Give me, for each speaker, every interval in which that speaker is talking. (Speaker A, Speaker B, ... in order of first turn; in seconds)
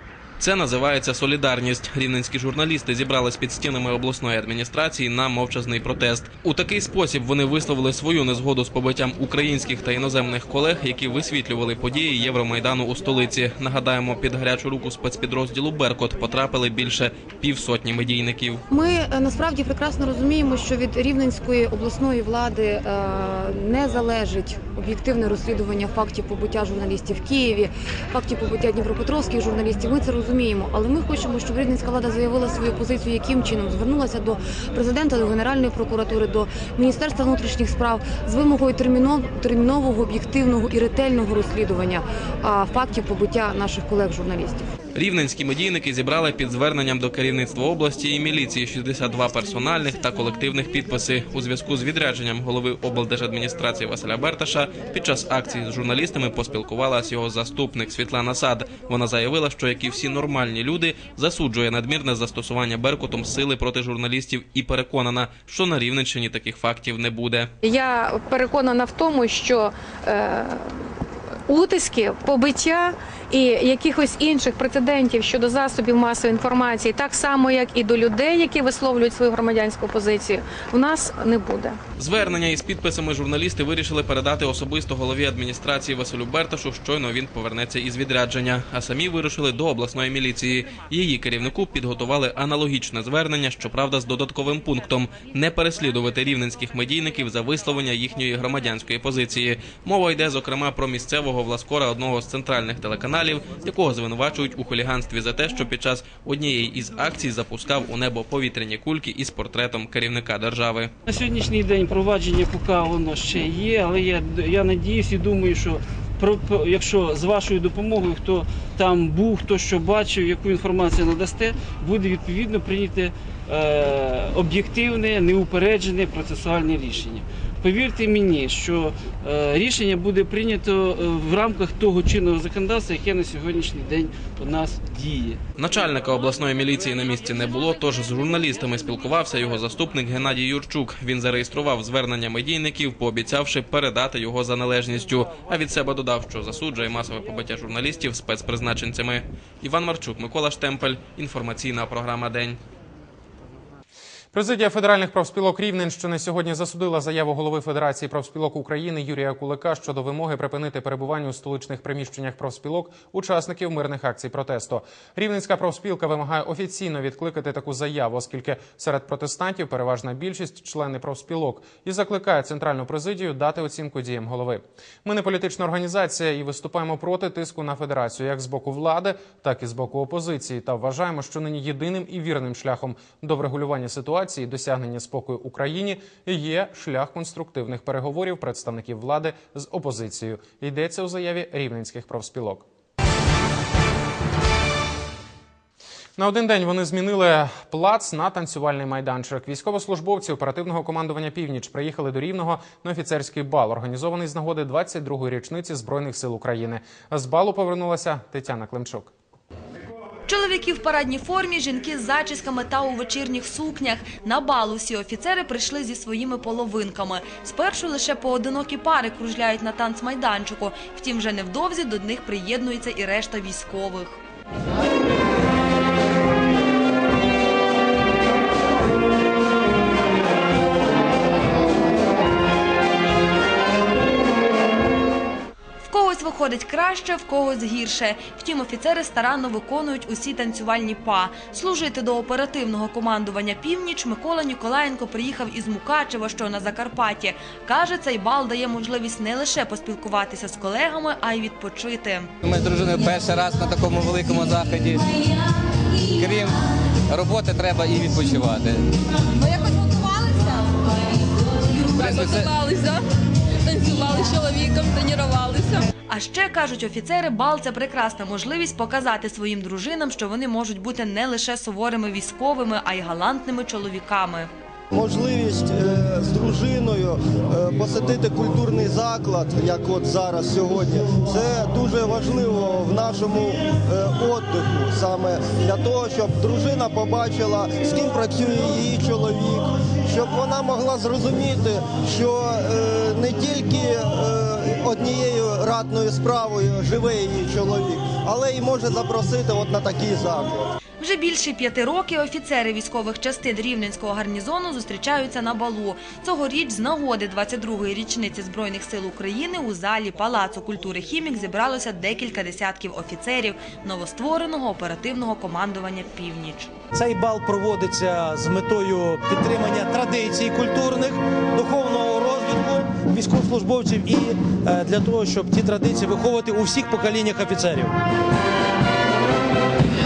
Speaker A: 0.4-18.6, 44.9-67.5, 82.0-110.9, 135.6-152.6
Speaker B: 18.7-44.6
Speaker C: 67.6-70.7, 71.5-81.8
Speaker D: 111.1-135.4
Speaker E: 154.3-192.6, 196.2-209.1
Speaker F: 210.3-224.2, 235.8-252.3, 266.1-274.5, 301.0-316.7
Speaker G: 252.4-255.0, 256.2-256.5, 257.1-258.8, 262.0-262.4
Speaker H: 259.4-260.4, 261.9-263.0, 263.6-265.8
Speaker I: 274.9-300.6
Speaker J: 316.9-321.2, 322.9-327.9